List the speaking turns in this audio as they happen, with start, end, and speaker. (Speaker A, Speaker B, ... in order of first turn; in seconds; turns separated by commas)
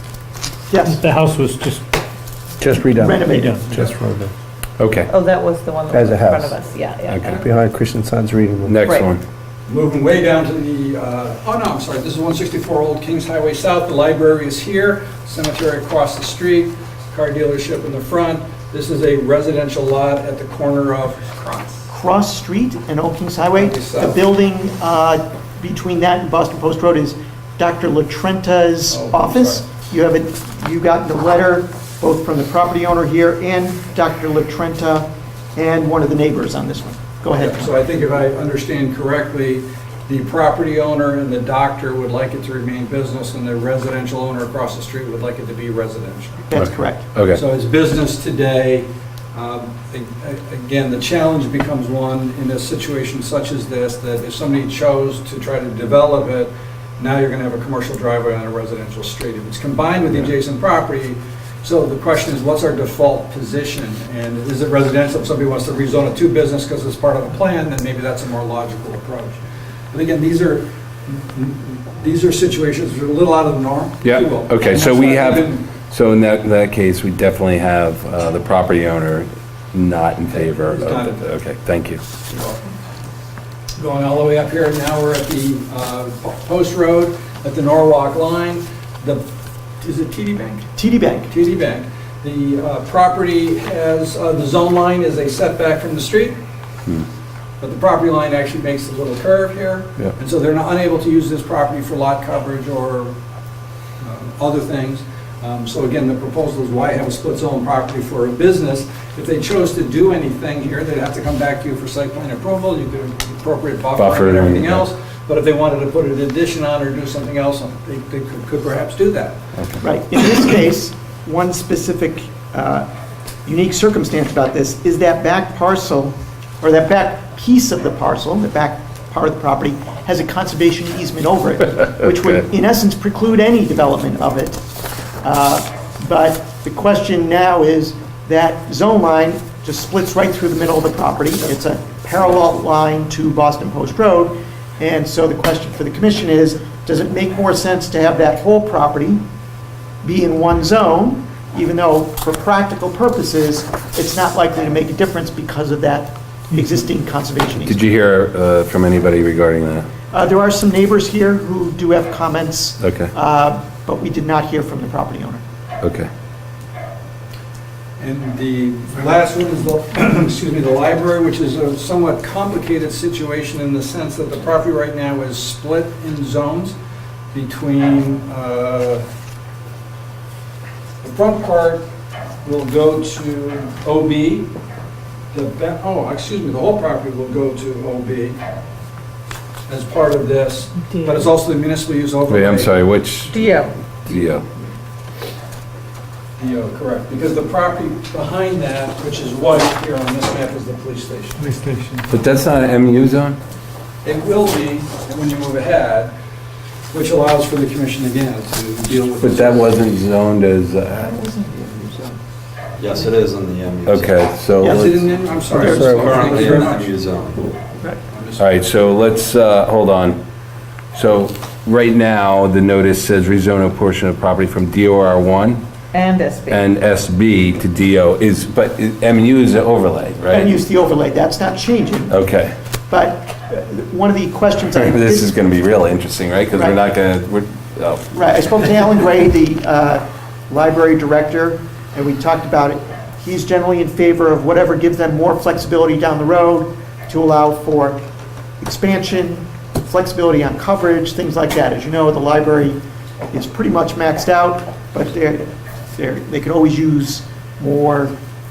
Speaker A: 0.7-1.0, Speaker B: 0.9-1.8, Speaker C: 2.6-4.3, Speaker A: 3.0-3.8, Speaker B: 3.4-3.7, Speaker D: 4.8-5.1, Speaker E: 5.1-7.4, Speaker C: 5.9-6.5, Speaker D: 7.1-7.5, Speaker C: 7.4-8.8, Speaker D: 8.6-9.2, Speaker F: 9.7-21.8, Speaker A: 21.9-37.8, Speaker F: 23.6-24.2, Speaker F: 28.9-29.6, Speaker F: 37.4-46.4, Speaker A: 46.5-47.0, Speaker D: 46.5-47.4, Speaker F: 47.3-69.4, Speaker F: 69.9-75.7, Speaker D: 74.0-82.0, Speaker F: 80.3-81.2, Speaker F: 82.3-82.7, Speaker F: 83.8-89.3, Speaker F: 89.8-90.7, Speaker A: 90.8-91.3, Speaker F: 91.3-96.4, Speaker F: 97.6-103.1, Speaker F: 104.0-119.4, Speaker D: 114.0-114.8, Speaker A: 119.8-122.9, Speaker A: 123.5-134.6, Speaker A: 135.2-149.2, Speaker A: 150.0-157.8, Speaker D: 157.7-159.9, Speaker A: 160.1-165.4, Speaker D: 162.8-163.1, Speaker D: 165.8-166.1, Speaker F: 168.0-176.8, Speaker F: 177.3-179.0, Speaker F: 181.0-181.8, Speaker F: 182.4-184.5, Speaker F: 185.3-188.4, Speaker F: 189.7-192.8, Speaker D: 192.3-194.4, Speaker E: 193.3-193.8, Speaker F: 196.4-201.5, Speaker B: 201.4-202.1, Speaker D: 202.1-203.4, Speaker F: 204.0-206.1, Speaker F: 206.9-209.8, Speaker D: 209.2-211.2, Speaker A: 211.0-212.2, Speaker G: 212.8-214.3, Speaker D: 213.8-215.1, Speaker A: 214.6-214.9, Speaker F: 214.6-216.9, Speaker G: 215.5-217.5, Speaker A: 215.5-215.9, Speaker C: 215.8-216.2, Speaker F: 218.1-218.5, Speaker D: 218.4-220.2, Speaker D: 220.9-225.6, Speaker E: 225.9-226.7, Speaker D: 226.5-230.5, Speaker A: 230.3-232.2, Speaker D: 232.1-232.6, Speaker A: 232.9-235.4, Speaker D: 234.8-238.1, Speaker A: 238.1-248.0, Speaker A: 248.6-252.8, Speaker A: 253.3-258.1